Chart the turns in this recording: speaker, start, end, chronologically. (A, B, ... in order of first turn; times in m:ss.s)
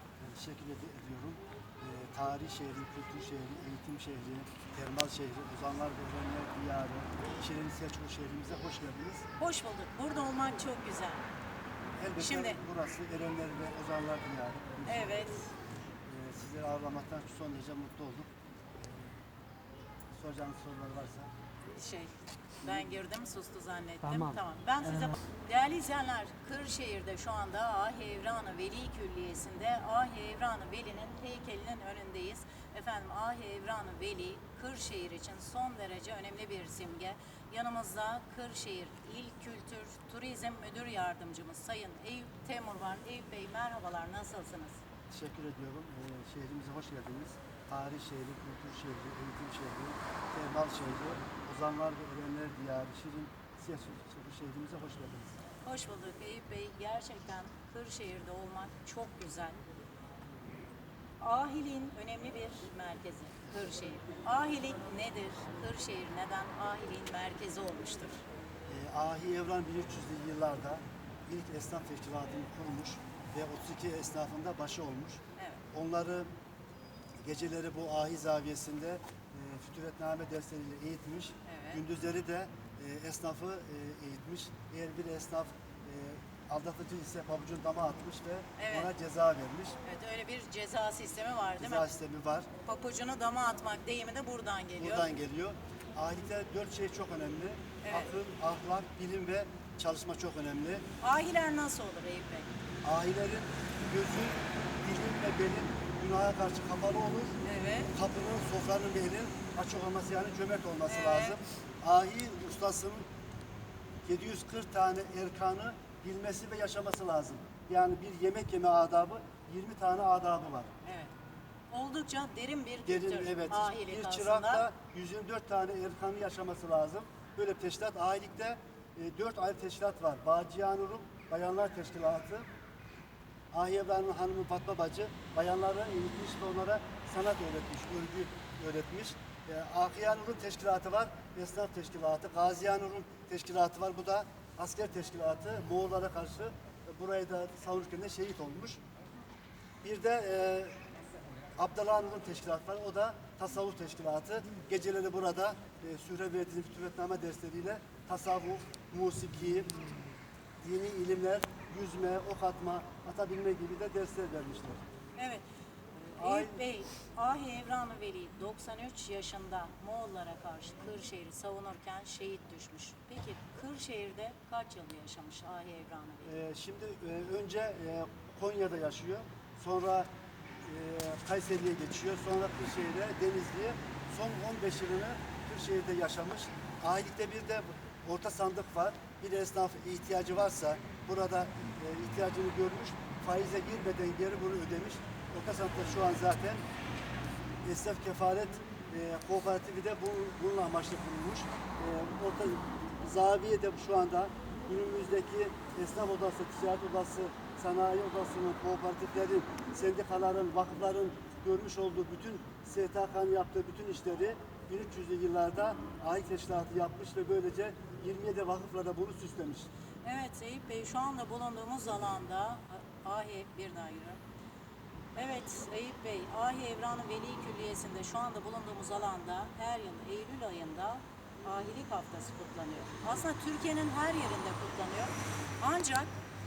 0:00.2-0:09.3 A
0:09.4-0:11.3 B
0:12.0-0:15.2 A
0:12.2-0:12.6 B
0:14.9-0:15.5 B
0:16.1-0:19.2 A
0:20.2-0:21.3 A
0:21.7-0:44.8 B
0:22.6-0:23.0 A
0:45.1-0:55.4 A
0:55.6-0:59.6 B
1:01.2-1:08.2 B
1:08.7-1:15.2 A
1:15.4-1:15.6 B
1:15.7-1:16.3 A
1:17.2-1:29.8 A
1:21.5-1:21.8 B
1:28.6-1:28.9 B
1:29.8-1:31.9 B
1:31.6-1:32.5 A
1:32.7-1:35.1 B
1:34.8-1:40.8 A
1:37.8-1:38.1 B
1:41.0-1:42.5 B
1:42.8-1:47.4 A
1:47.4-1:47.9 B
1:47.9-1:53.1 A
1:50.9-1:51.4 B
1:54.0-2:00.7 A
2:00.8-2:01.1 B
2:01.7-2:04.7 B
2:02.8-2:12.5 A
2:13.5-2:28.8 A
2:29.8-2:30.8 A
2:31.6-2:39.7 A
2:40.6-2:44.8 A
2:45.2-2:45.4 B
2:46.0-2:56.3 B
2:46.2-2:46.6 A
2:56.2-3:00.1 A
3:00.6-3:16.6 A
3:17.6-3:39.7 A
3:40.0-3:44.2 B
3:45.2-3:56.1 B